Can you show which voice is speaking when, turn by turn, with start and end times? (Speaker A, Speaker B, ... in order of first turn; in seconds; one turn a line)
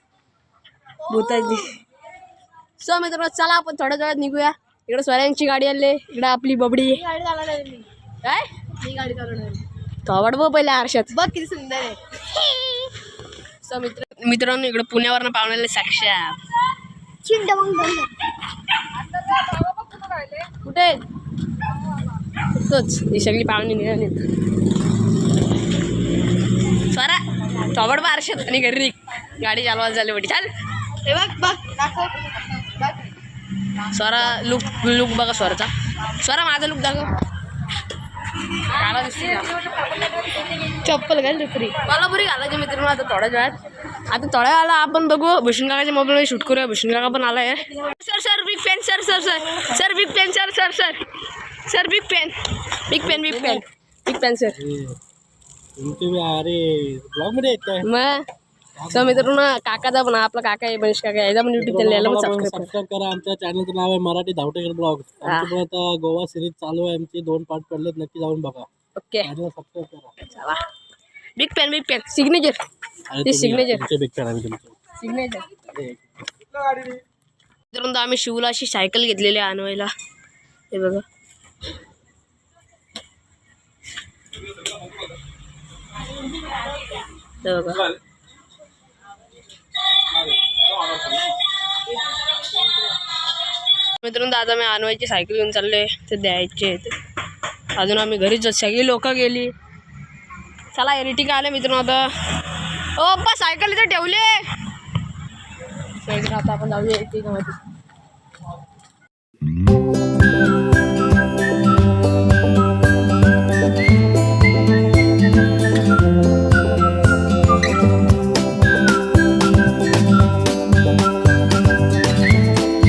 Speaker A: 1.0-1.8
Speaker A: 2.8-7.2
Speaker B: 7.0-7.9
Speaker A: 8.2-11.2
Speaker B: 9.2-9.6
Speaker B: 11.2-12.9
Speaker A: 13.6-16.4
Speaker B: 17.2-18.1
Speaker B: 19.5-20.3
Speaker A: 20.5-21.0
Speaker A: 22.4-24.3
Speaker A: 26.7-30.5
Speaker B: 31.1-32.9
Speaker A: 33.8-37.1
Speaker A: 38.6-39.6
Speaker B: 40.9-41.7
Speaker A: 40.9-43.6
Speaker A: 44.1-51.0
Speaker A: 51.7-52.4
Speaker A: 52.9-54.6
Speaker C: 53.0-53.6
Speaker C: 54.6-55.0
Speaker C: 55.8-57.9
Speaker A: 57.8-58.2
Speaker C: 58.8-59.3
Speaker A: 58.9-62.7
Speaker C: 61.6-68.7
Speaker A: 65.2-65.5
Speaker A: 69.0-69.3
Speaker C: 69.2-70.1
Speaker A: 70.2-70.6
Speaker A: 71.4-72.6
Speaker C: 73.1-74.9
Speaker A: 73.2-73.8
Speaker A: 75.0-75.5
Speaker C: 75.6-76.1
Speaker A: 77.7-79.9
Speaker A: 80.7-81.0
Speaker A: 87.4-87.9
Speaker A: 94.0-96.9
Speaker A: 97.8-99.5
Speaker A: 100.7-102.1
Speaker A: 103.0-104.5
Speaker A: 106.0-107.6